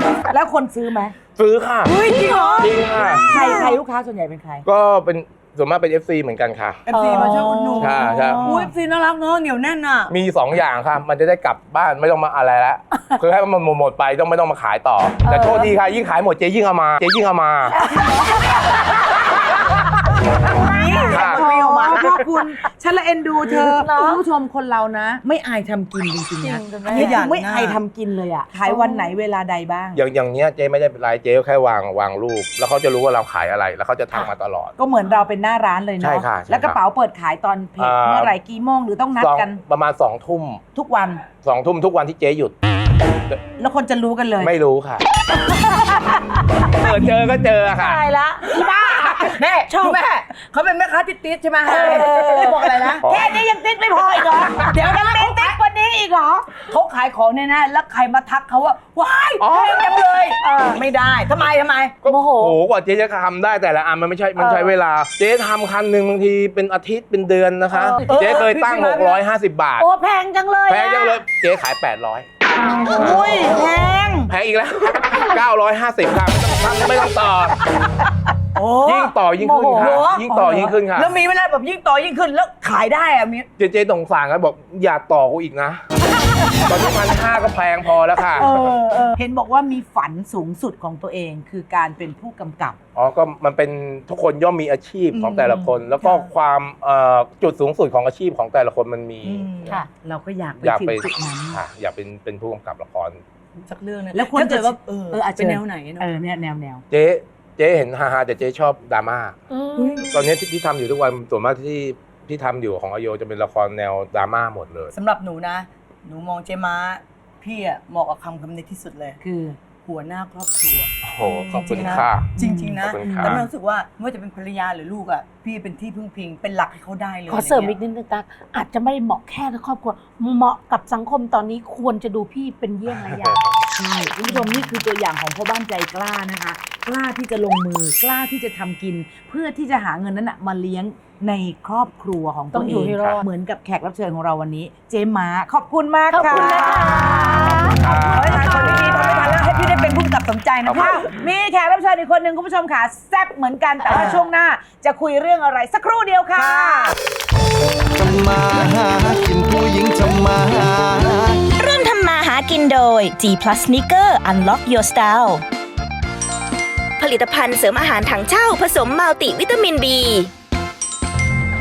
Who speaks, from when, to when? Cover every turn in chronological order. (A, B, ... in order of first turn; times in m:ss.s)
0:00.3-0:01.2 A
0:01.4-0:01.9 B
0:01.9-0:03.8 C
0:02.1-0:04.7 A
0:02.6-0:03.3 B
0:04.6-0:06.8 B
0:06.9-0:10.1 C
0:06.9-0:08.5 D
0:07.8-0:08.4 B
0:08.2-0:08.7 A
0:10.1-0:17.8 B
0:15.2-0:15.8 D
0:17.7-0:18.9 D
0:20.4-0:30.0 A
0:20.8-0:22.2 D
0:21.1-0:21.4 B
0:21.4-0:21.9 C
0:23.5-0:24.2 D
0:26.4-0:27.2 D
0:26.9-0:27.8 C
0:28.6-0:29.1 D
0:30.0-0:34.7 B
0:34.8-0:39.6 A
0:36.0-0:36.8 B
0:37.8-0:38.4 B
0:39.2-0:40.6 B
0:40.8-0:41.2 A
0:41.4-0:42.6 B
0:43.6-0:44.6 A
0:44.4-0:45.0 B
0:46.7-0:48.0 B
0:47.7-0:48.6 D
0:48.5-0:53.1 C
0:48.7-0:49.3 A
0:49.7-0:50.0 D
0:51.6-0:53.0 D
0:51.7-0:52.1 A
0:53.0-0:53.4 B
0:53.0-0:56.4 A
0:54.1-0:55.6 C
0:56.3-1:02.0 C
0:59.4-0:59.9 B
1:00.4-1:00.8 D
1:02.0-1:09.9 B
1:02.0-1:02.6 D
1:04.4-1:04.7 D
1:07.7-1:08.0 D
1:08.1-1:09.2 C
1:09.8-1:11.2 D
1:10.7-1:12.3 B
1:12.7-1:14.3 C
1:12.7-1:13.0 D
1:13.0-1:13.2 B
1:13.1-1:13.6 A
1:14.3-1:17.6 B
1:18.6-1:19.2 C
1:18.8-1:21.1 B
1:19.3-1:20.2 D
1:19.7-1:23.5 C
1:23.6-1:25.8 B
1:26.6-1:28.5 B
1:28.4-1:29.2 C
1:29.1-1:32.8 A
1:33.0-1:39.5 B
1:35.1-1:35.5 C
1:35.4-1:35.7 D
1:39.2-1:39.8 C
1:40.0-1:41.6 A
1:40.6-1:43.2 B
1:43.7-1:46.1 C
1:44.1-1:46.8 A
1:46.9-1:49.4 B
1:49.5-1:50.2 D
1:49.8-1:50.2 C
1:50.1-1:54.9 B
1:54.9-1:59.2 C
1:59.2-1:59.6 A
1:59.8-2:07.8 C
2:01.0-2:03.4 B
2:02.4-2:03.5 A
2:07.3-2:13.4 D
2:12.9-2:13.4 B
2:13.7-2:37.0 A
2:22.5-2:23.3 D
2:23.0-2:23.2 B
2:26.1-2:28.6 D
2:26.2-2:27.2 C
2:27.7-2:30.0 B
2:28.2-2:31.0 C
2:30.6-2:31.1 B
2:33.9-2:34.2 C
2:36.4-2:37.0 C
2:38.0-2:41.4 E
2:41.6-2:45.4 F
2:47.0-2:50.3 F